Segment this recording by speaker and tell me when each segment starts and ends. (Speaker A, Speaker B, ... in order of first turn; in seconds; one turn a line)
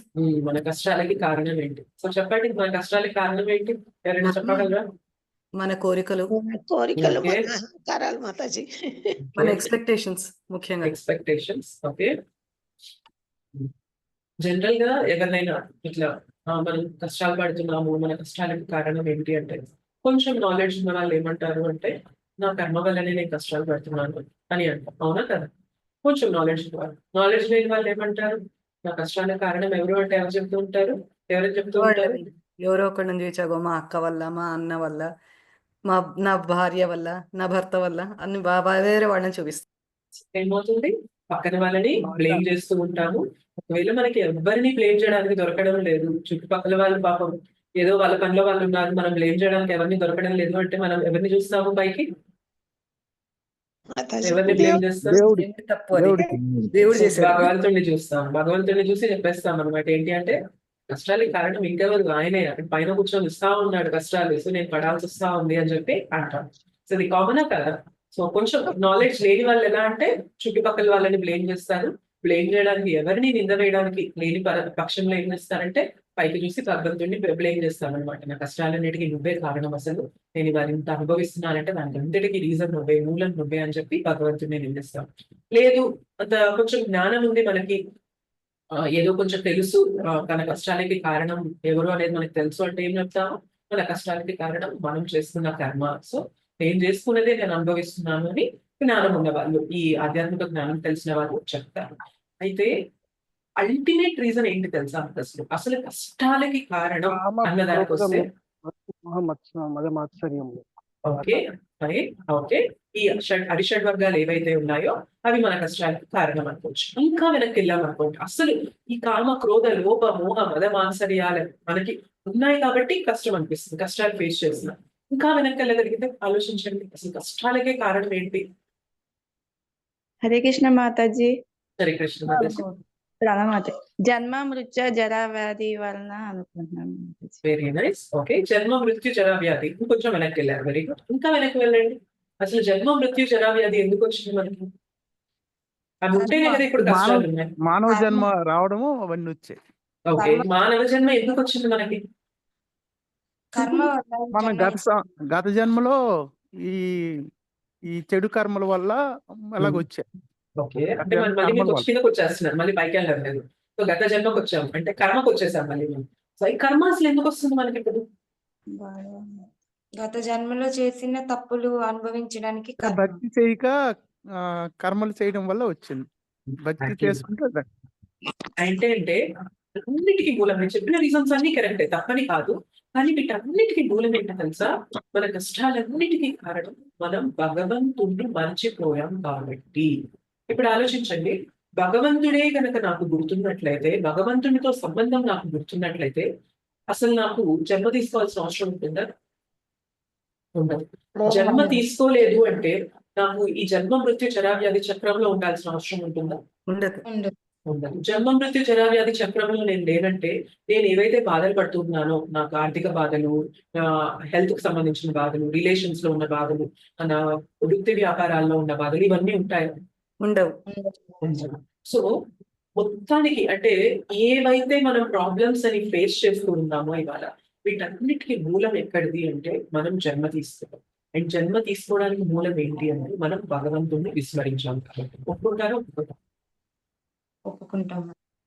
Speaker A: 0.2-4.8
Speaker B: 4.2-4.7
Speaker B: 5.6-6.3
Speaker C: 6.3-9.1
Speaker A: 7.0-7.5
Speaker A: 9.3-9.6
Speaker B: 9.4-10.9
Speaker A: 10.8-12.2
Speaker A: 14.4-25.5
Speaker A: 26.0-32.2
Speaker B: 31.8-35.1
Speaker B: 35.9-39.6
Speaker A: 40.3-52.0
Speaker D: 42.1-42.4
Speaker C: 54.0-54.8
Speaker A: 54.2-55.2
Speaker D: 55.1-56.7
Speaker B: 55.2-57.5
Speaker A: 56.9-60.4
Speaker A: 60.9-87.8
Speaker A: 88.7-102.7
Speaker A: 103.6-108.3
Speaker D: 107.1-108.2
Speaker D: 108.9-110.6
Speaker A: 111.0-128.4
Speaker E: 130.2-131.3
Speaker A: 131.8-132.6
Speaker E: 132.3-132.6
Speaker E: 133.2-137.3
Speaker A: 137.4-144.7
Speaker A: 146.0-147.5
Speaker F: 146.1-146.7
Speaker D: 146.8-149.6
Speaker F: 147.8-148.3
Speaker A: 150.1-152.0
Speaker F: 150.2-150.5
Speaker F: 153.6-154.8
Speaker D: 153.6-155.9
Speaker D: 157.9-160.0
Speaker A: 160.6-168.0
Speaker D: 160.9-161.8
Speaker E: 168.8-169.3
Speaker F: 170.0-173.2
Speaker D: 172.8-173.7
Speaker D: 174.8-176.0
Speaker D: 176.6-177.7
Speaker A: 176.8-177.2
Speaker A: 178.6-179.2
Speaker A: 179.8-189.9
Speaker A: 190.5-196.3
Speaker A: 196.9-199.1
Speaker A: 200.6-206.4
Speaker B: 206.7-207.0
Speaker F: 207.1-207.3
Speaker A: 207.7-219.7
Speaker B: 220.2-220.5
Speaker F: 220.7-221.0
Speaker A: 221.2-222.1
Speaker A: 222.8-236.2
Speaker F: 237.5-238.1